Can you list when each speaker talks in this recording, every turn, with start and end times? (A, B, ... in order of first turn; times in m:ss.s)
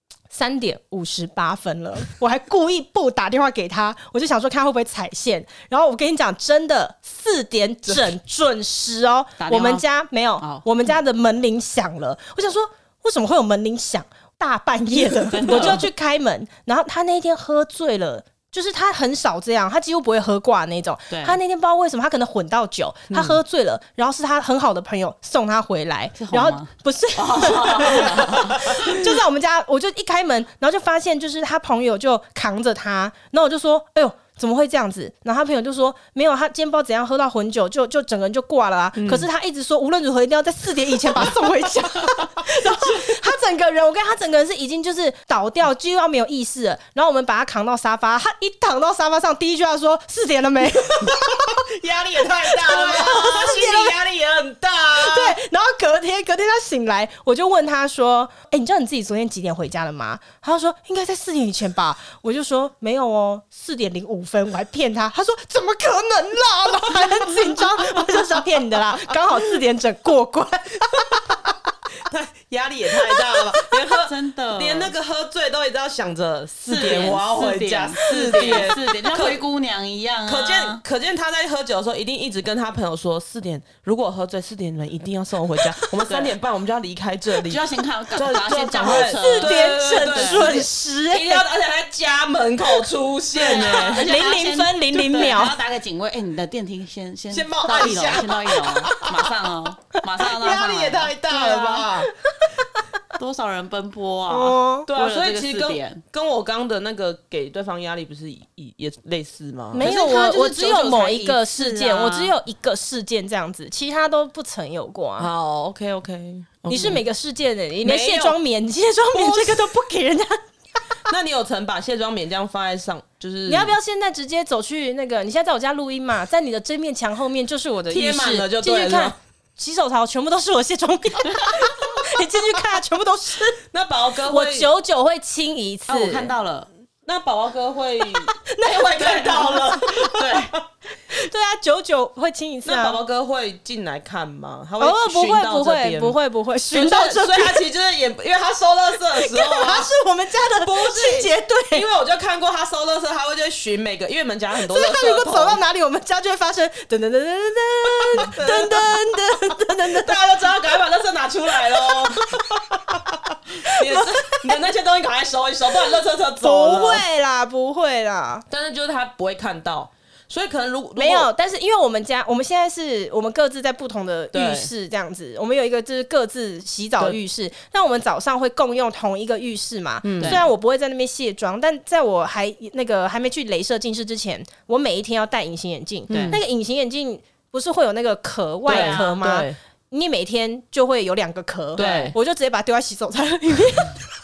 0:00.3-0:51.6 A
0:09.4-0:09.8 B
0:10.4-0:10.6 B
0:15.3-0:15.8 B
0:15.5-0:15.8 C
0:21.1-0:21.4 B
0:23.1-0:23.4 C
0:26.2-0:28.8 B
0:28.9-0:29.2 C
0:39.0-0:39.3 C
0:51.1-0:55.4 C
0:52.3-0:53.9 A
0:55.0-1:11.1 A
1:12.1-1:19.4 C
1:13.1-1:13.7 A
1:14.0-1:14.9 B
1:16.7-1:20.8 B
1:18.2-1:18.7 A
1:20.3-1:27.6 C
1:26.1-1:26.4 B
1:27.4-1:30.6 B
1:28.2-1:34.1 C
1:28.9-1:31.4 A
1:33.4-1:35.6 A
1:33.4-1:41.6 B
1:37.3-1:39.3 C
1:40.3-1:42.1 C
1:41.3-1:42.5 A
1:43.2-1:46.0 B
1:44.3-1:44.9 A
1:44.9-1:49.9 C
1:49.7-1:55.3 A
1:49.8-1:52.3 B
1:55.2-1:57.0 C
1:56.7-2:00.4 A
1:57.8-1:58.4 C
1:59.1-1:59.7 C
2:01.1-2:03.7 C
2:03.5-2:13.6 A
2:07.9-2:09.2 C
2:13.7-2:14.7 C
2:14.3-2:16.3 A
2:15.9-2:16.7 B
2:17.0-2:20.6 C
2:18.3-2:20.2 A
2:19.0-2:20.5 B
2:21.1-2:23.0 A
2:22.6-2:26.2 C
2:24.8-2:27.6 A
2:26.7-2:35.6 C
2:29.1-2:31.9 A
2:34.6-2:40.2 A
2:38.1-2:39.0 C
2:39.9-2:47.0 C
2:43.6-2:44.6 A
2:46.4-2:48.4 A
2:48.5-2:51.3 C
2:51.0-3:14.1 A
2:54.3-2:54.7 C
3:00.0-3:00.4 C
3:06.1-3:06.4 B
3:06.1-3:06.4 C
3:08.7-3:09.2 B
3:08.7-3:09.6 C
3:11.8-3:12.2 C
3:11.8-3:12.2 B